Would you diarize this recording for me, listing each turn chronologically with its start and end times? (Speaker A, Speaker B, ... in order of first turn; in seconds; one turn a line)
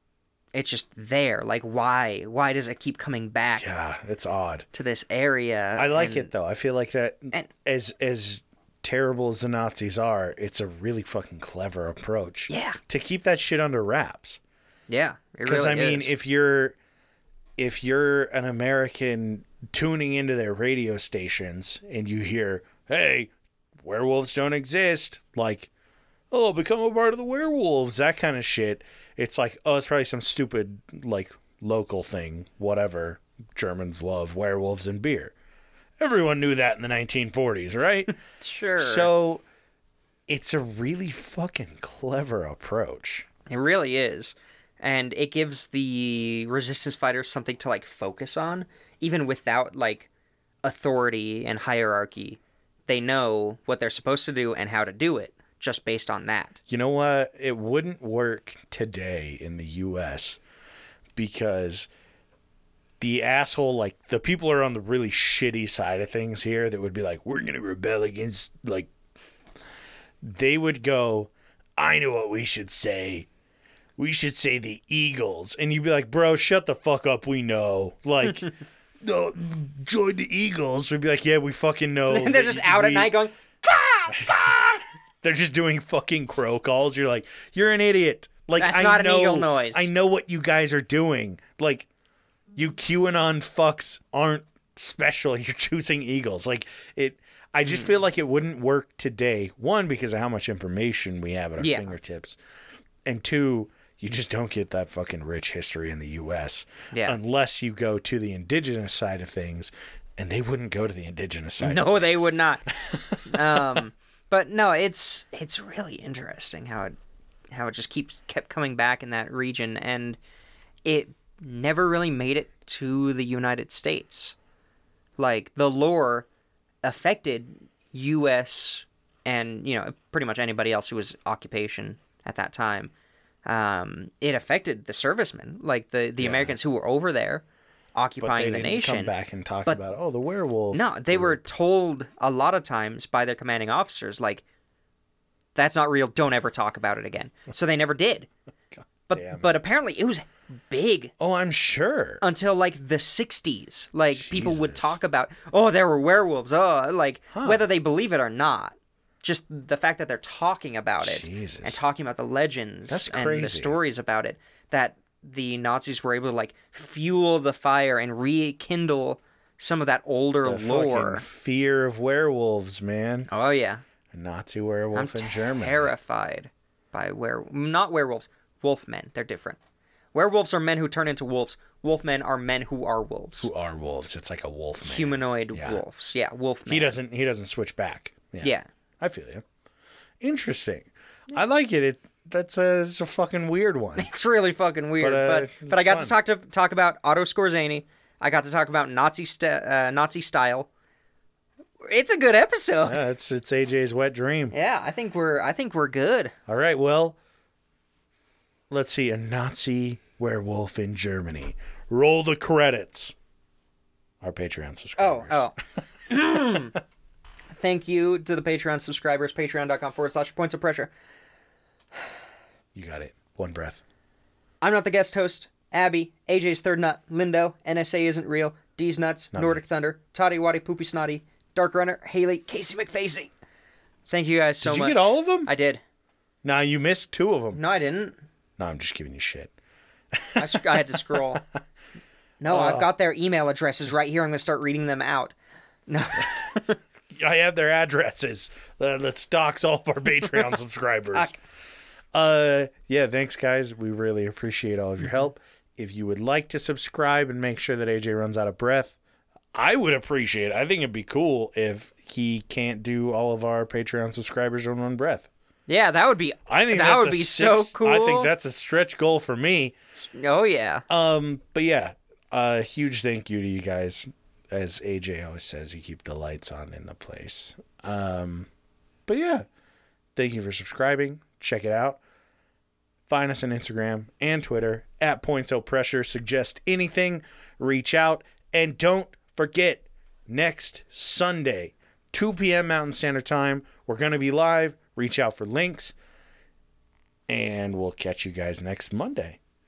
Speaker A: 0.5-3.7
Speaker B: 3.5-4.7
Speaker A: 4.7-6.3
Speaker B: 5.8-14.4
Speaker A: 12.5-12.8
Speaker A: 14.9-16.1
Speaker B: 15.4-16.8
Speaker B: 17.6-25.7
Speaker B: 26.3-35.3
Speaker B: 36.0-38.1
Speaker A: 38.4-39.1
Speaker B: 38.8-39.4
Speaker B: 40.3-43.3
Speaker A: 43.5-50.1
Speaker A: 50.6-56.6
Speaker B: 56.7-60.4
Speaker B: 61.2-61.9
Speaker B: 63.0-68.9
Speaker B: 70.2-73.3
Speaker B: 74.0-83.2
Speaker A: 82.1-84.8
Speaker B: 84.1-91.9
Speaker A: 88.6-89.9
Speaker B: 92.5-102.4
Speaker A: 101.6-101.9
Speaker B: 103.0-113.8
Speaker A: 106.9-107.2
Speaker A: 111.6-117.0
Speaker A: 117.5-120.2
Speaker A: 120.8-124.3
Speaker A: 125.2-126.3
Speaker A: 126.8-132.9
Speaker A: 133.5-137.4
Speaker B: 136.2-136.6
Speaker A: 137.9-139.1
Speaker B: 138.2-141.5
Speaker A: 140.7-144.4
Speaker A: 145.6-148.3
Speaker A: 149.1-151.1
Speaker B: 149.1-149.5
Speaker B: 151.2-152.2
Speaker A: 152.2-171.2
Speaker B: 154.1-155.0
Speaker B: 157.3-157.6
Speaker B: 161.0-161.8
Speaker B: 162.9-163.8
Speaker B: 170.4-173.3
Speaker A: 173.3-173.8
Speaker B: 174.1-175.9
Speaker A: 174.9-179.6
Speaker A: 180.1-183.5
Speaker B: 183.4-185.8
Speaker A: 184.8-187.0
Speaker B: 186.7-189.4
Speaker A: 188.4-188.7
Speaker B: 190.2-194.1
Speaker A: 194.0-200.7
Speaker B: 195.0-196.2
Speaker A: 201.9-203.0
Speaker B: 202.8-204.5
Speaker A: 204.5-206.3
Speaker B: 206.5-207.2
Speaker B: 208.7-213.2
Speaker B: 214.2-215.5
Speaker A: 215.0-215.6
Speaker A: 216.1-216.8
Speaker A: 217.6-220.9
Speaker B: 222.7-223.8
Speaker A: 224.6-233.3
Speaker B: 229.3-229.6
Speaker A: 234.1-235.8
Speaker B: 234.6-235.5
Speaker B: 236.4-237.6
Speaker A: 237.5-238.2
Speaker B: 238.6-239.5
Speaker B: 240.1-241.2
Speaker A: 240.4-241.4
Speaker A: 242.4-245.3
Speaker B: 242.5-242.9
Speaker A: 245.9-246.8
Speaker B: 247.1-251.3
Speaker B: 252.1-259.0
Speaker B: 259.5-265.3
Speaker A: 265.7-268.3
Speaker B: 266.5-269.8
Speaker A: 270.1-270.8
Speaker B: 270.9-278.5
Speaker B: 279.1-279.4
Speaker B: 280.2-282.0
Speaker B: 283.1-295.9
Speaker B: 297.3-299.4